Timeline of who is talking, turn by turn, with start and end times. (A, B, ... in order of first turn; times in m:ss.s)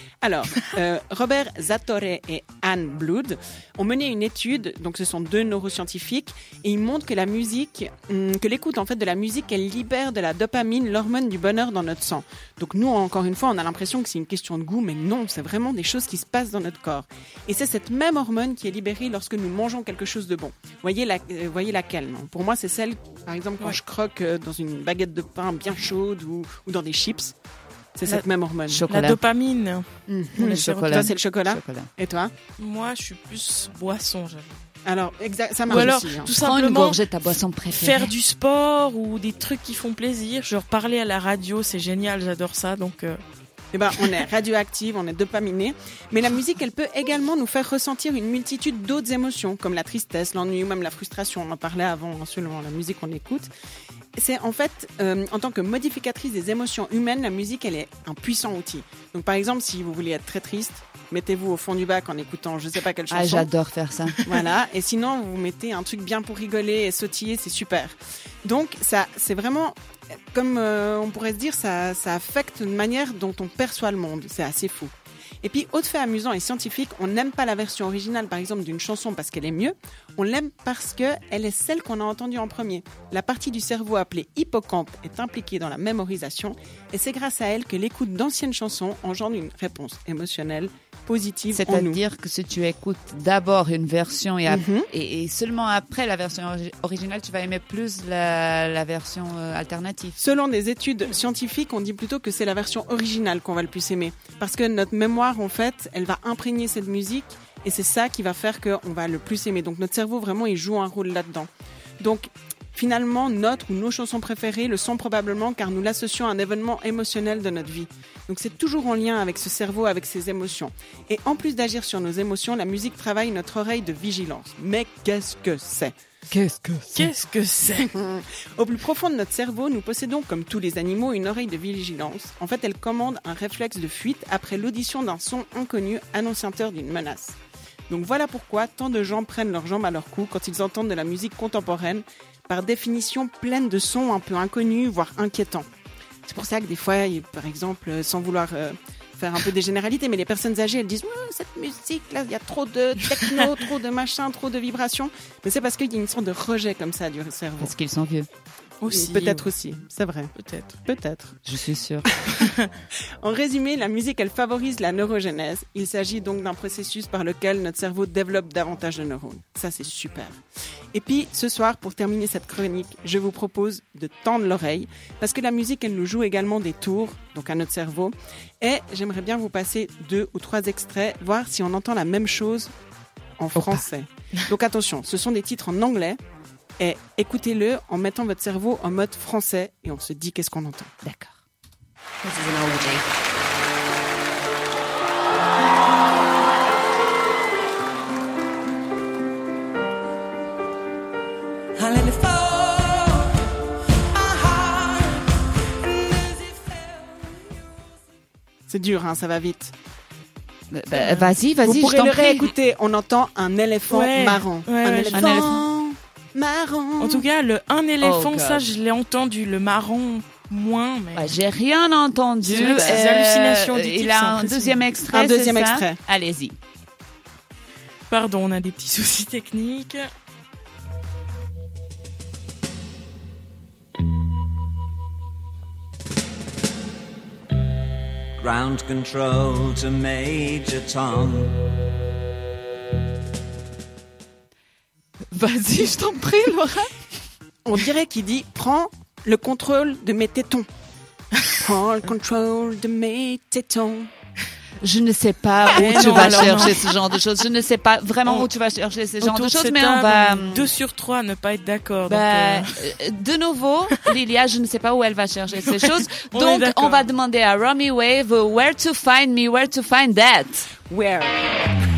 0:00.2-0:27.4 A
0:28.0-0:28.9 A
0:28.7-0:29.2 B
0:28.9-0:29.9 C
0:30.1-0:32.3 A
0:30.4-0:31.9 B
0:30.5-0:31.1 C
0:32.6-0:34.7 C
0:34.8-0:36.4 A
0:35.7-0:37.0 C
0:35.7-0:38.1 B
0:37.7-0:43.2 C
0:43.7-0:53.5 A
0:44.0-0:44.2 C
0:54.2-1:03.5 A
1:03.1-1:04.2 B
1:04.2-1:09.8 A
1:10.3-1:32.0 A
1:31.5-1:40.2 B
1:34.5-1:34.9 A
1:40.2-2:05.9 A
2:06.3-2:07.1 B
2:06.9-2:08.0 C
2:07.9-2:17.4 A
2:17.9-2:25.7 A
2:26.3-2:37.7 A
2:37.6-2:38.3 B
2:38.8-2:39.5 C
2:38.9-2:40.3 A
2:40.4-2:40.8 C
2:40.8-2:41.4 A
2:41.4-2:42.1 B
2:43.2-2:50.4 A
2:50.9-3:02.7 A
3:03.4-3:06.2 A
3:03.6-3:03.8 B
3:06.8-3:10.9 A
3:11.0-3:11.4 B
3:12.2-3:13.0 D
3:21.8-3:23.0 D
3:28.7-3:29.7 A
3:30.7-3:32.5 B
3:30.9-3:37.3 A
3:33.9-3:35.5 C
3:35.1-3:35.7 B
3:37.0-3:41.4 C
3:38.0-3:38.7 B
3:41.1-3:46.6 B
3:42.4-3:43.1 A
3:42.4-3:44.9 C
3:45.1-3:46.0 A
3:48.1-3:50.1 C
3:58.4-4:01.7 E
4:05.3-4:06.9 B
4:07.6-4:10.7 A
4:11.6-4:14.1 A
4:14.8-4:20.7 B
4:15.7-4:16.9 C
4:15.8-4:16.7 A
4:19.2-4:22.8 C
4:22.1-4:30.7 B
4:25.6-4:27.1 C
4:30.9-4:31.5 A